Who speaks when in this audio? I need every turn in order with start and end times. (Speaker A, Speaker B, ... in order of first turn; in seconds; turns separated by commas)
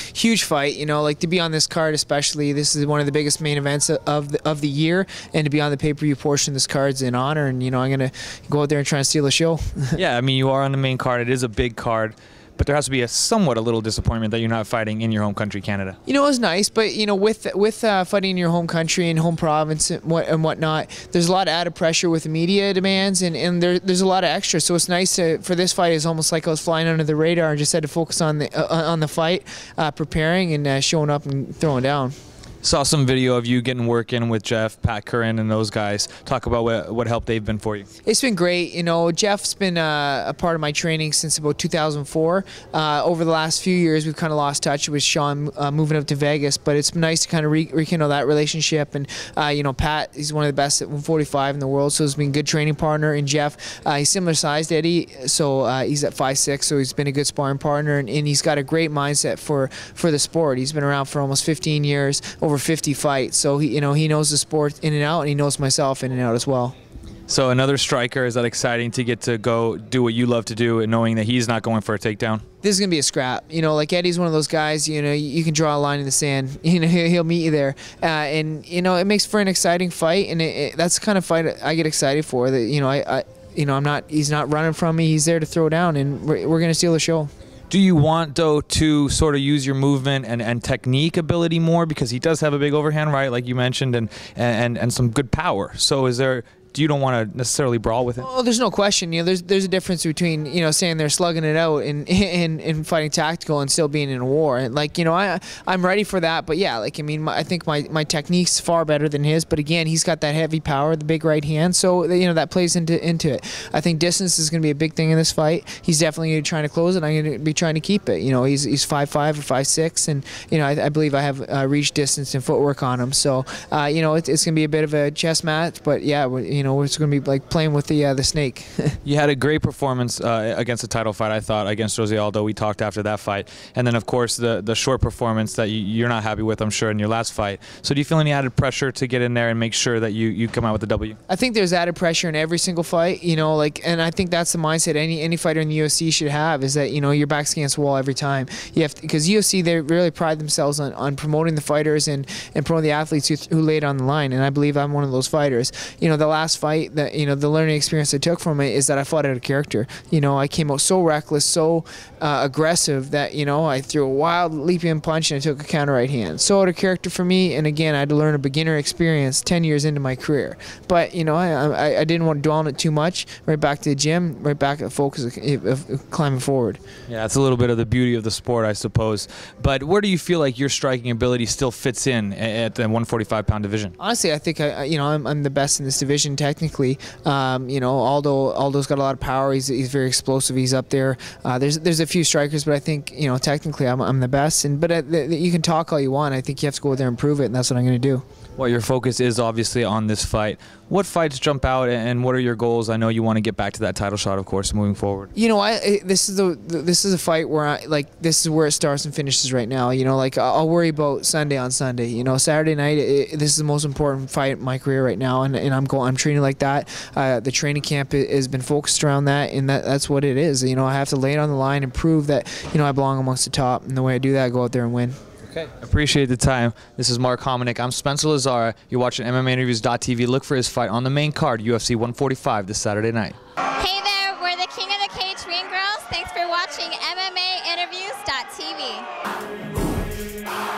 Speaker A: 0.1-10.0, Speaker B: 10.0-16.0, Speaker A: 16.1-32.1, Speaker B: 32.6-37.9, Speaker A: 38.0-66.7, Speaker B: 67.3-72.4, Speaker A: 72.6-87.3, Speaker B: 87.7-98.3, Speaker A: 98.2-129.0, Speaker B: 129.1-141.2, Speaker A: 141.3-176.8, Speaker B: 177.1-183.9, Speaker A: 184.0-198.2, Speaker B: 198.6-205.3, Speaker A: 205.3-225.2, Speaker B: 225.5-233.4, Speaker C: 233.8-239.1